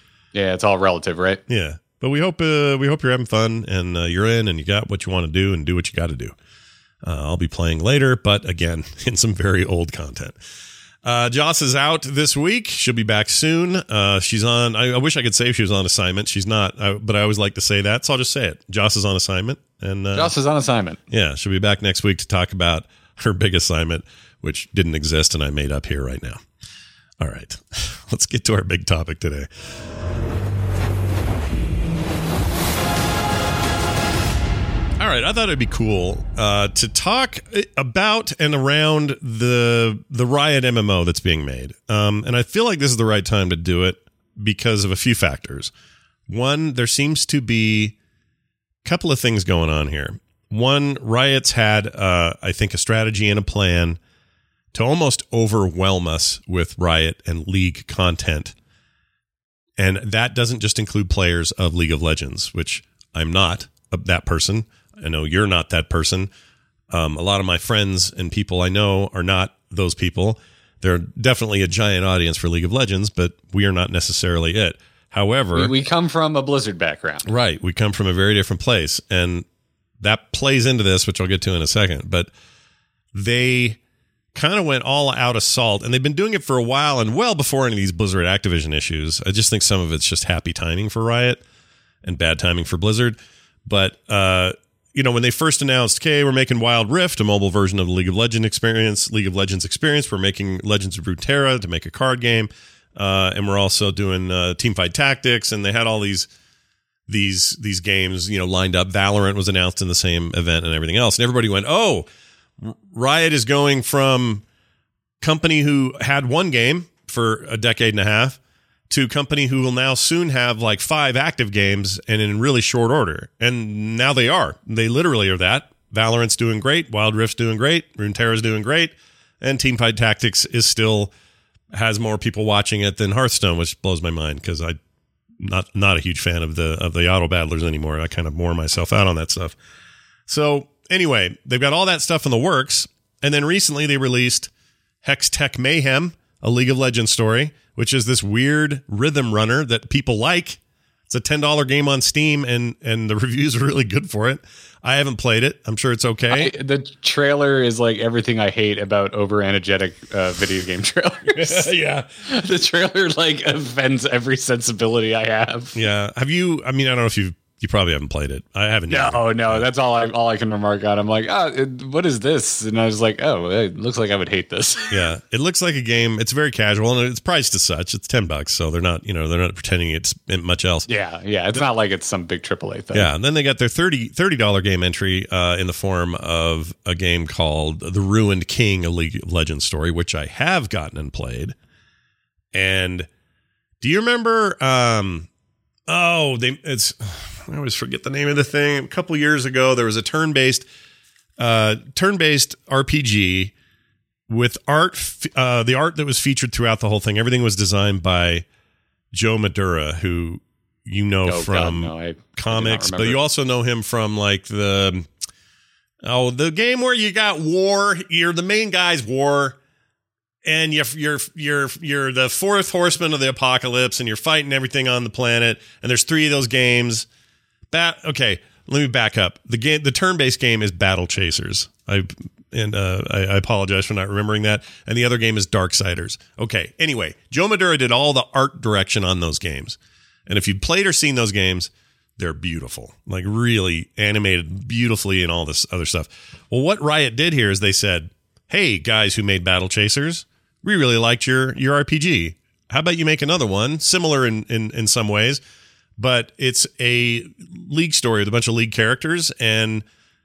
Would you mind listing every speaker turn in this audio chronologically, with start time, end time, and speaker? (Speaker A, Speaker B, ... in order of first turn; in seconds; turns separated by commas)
Speaker A: 0.3-1.4, Speaker B: 1.5-6.3, Speaker B: 7.0-10.4, Speaker B: 11.0-20.3, Speaker A: 20.1-21.0, Speaker B: 21.1-26.4, Speaker B: 27.2-29.5, Speaker B: 35.0-45.7, Speaker B: 46.3-48.0, Speaker B: 48.8-54.0, Speaker B: 54.7-58.5, Speaker B: 59.8-66.3, Speaker B: 66.9-75.7, Speaker A: 75.5-77.3, Speaker B: 77.2-79.4, Speaker B: 80.0-82.3, Speaker B: 83.1-83.8, Speaker B: 84.3-91.4, Speaker B: 92.0-106.3, Speaker B: 107.1-112.0, Speaker B: 112.6-114.4, Speaker B: 115.2-118.4, Speaker B: 118.9-131.1, Speaker B: 131.7-134.8, Speaker B: 135.4-139.6, Speaker B: 140.3-144.5, Speaker B: 145.0-156.5, Speaker A: 156.3-165.8, Speaker B: 161.3-162.1, Speaker B: 165.7-169.7, Speaker A: 168.9-174.9, Speaker B: 174.9-180.9, Speaker A: 180.9-183.1, Speaker B: 182.9-191.5, Speaker B: 192.5-193.1, Speaker B: 193.8-195.3, Speaker B: 195.9-200.6, Speaker B: 201.4-203.5, Speaker B: 204.3-208.4, Speaker B: 209.1-215.1, Speaker A: 211.2-213.2, Speaker B: 216.0-219.6, Speaker B: 220.4-227.1, Speaker B: 227.7-255.4, Speaker B: 256.0-259.8